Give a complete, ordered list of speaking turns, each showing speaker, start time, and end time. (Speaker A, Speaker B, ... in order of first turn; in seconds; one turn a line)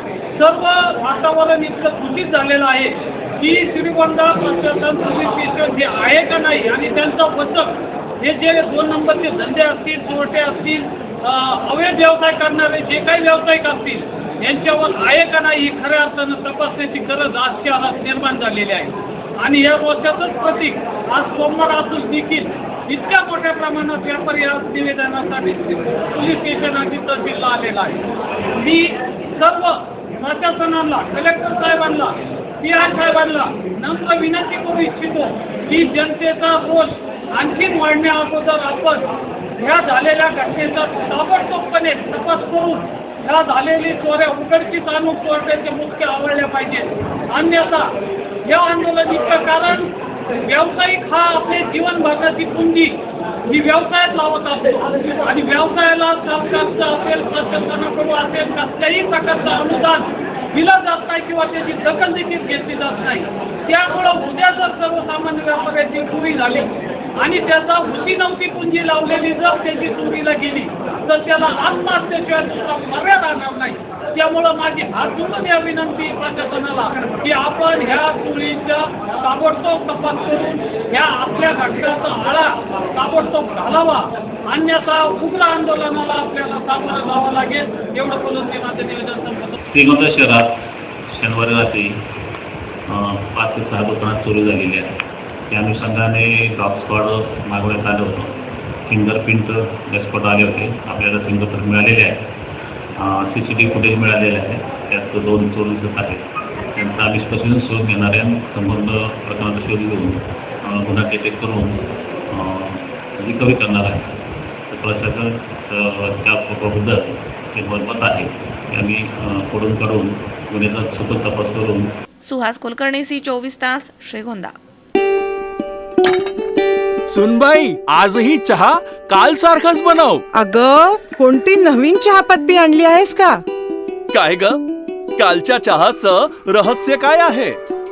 Speaker A: 0.4-28.0
Speaker A: 28.6-39.1
Speaker A: 39.6-47.9
Speaker A: 48.5-89.6
Speaker B: 89.7-91.9
Speaker B: 92.9-102.2
Speaker B: 103.0-106.2
Speaker B: 106.7-114.2
Speaker B: 114.7-121.8
Speaker C: 122.2-124.5
Speaker D: 127.1-130.2
Speaker E: 130.3-133.4
Speaker D: 134.1-134.6
Speaker D: 135.2-137.6